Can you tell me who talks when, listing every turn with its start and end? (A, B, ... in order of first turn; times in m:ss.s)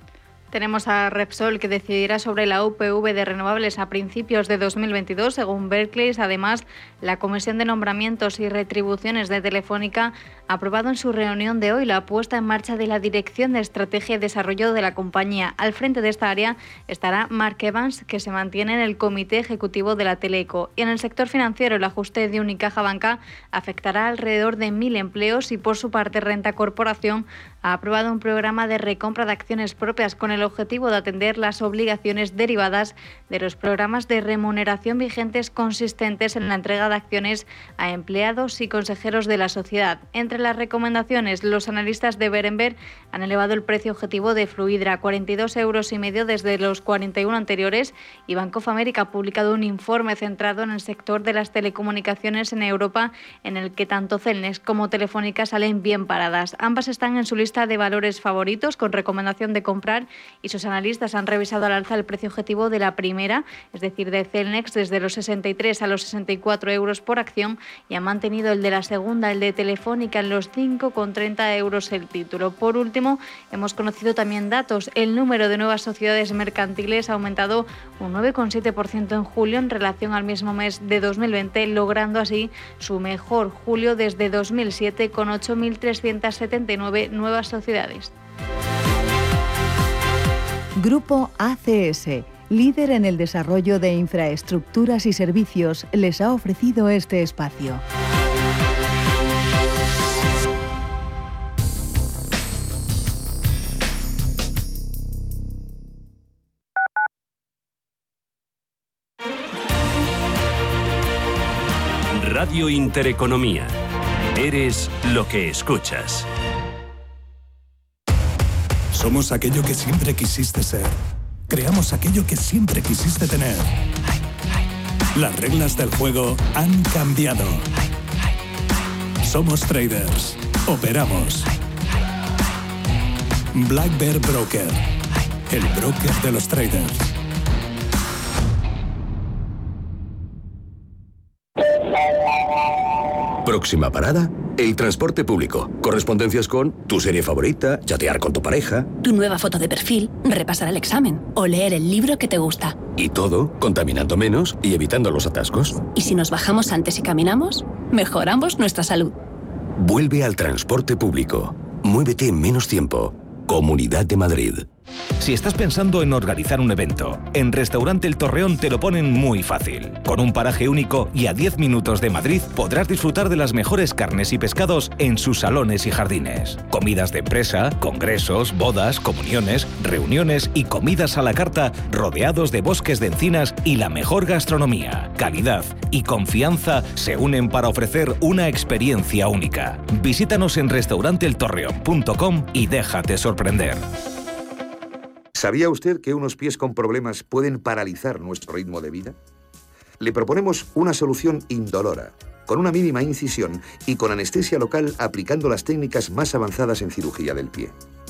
0:00.5-1:28.1 A
1:30.8-1:37.8 B
1:52.1-1:53.7 C
1:54.4-1:56.3 C
1:58.9-2:01.0 D
2:01.5-2:03.7 D
2:05.2-2:07.6 D
2:09.2-2:11.5 D
2:13.6-2:14.8 D
2:15.5-2:17.1 D
2:23.5-2:28.8 E
2:29.0-2:32.8 F
2:33.0-2:35.8 E
2:36.0-2:39.2 F
2:39.8-2:44.6 E
2:45.2-3:13.8 G
3:15.4-3:19.2 H
3:20.0-3:27.7 H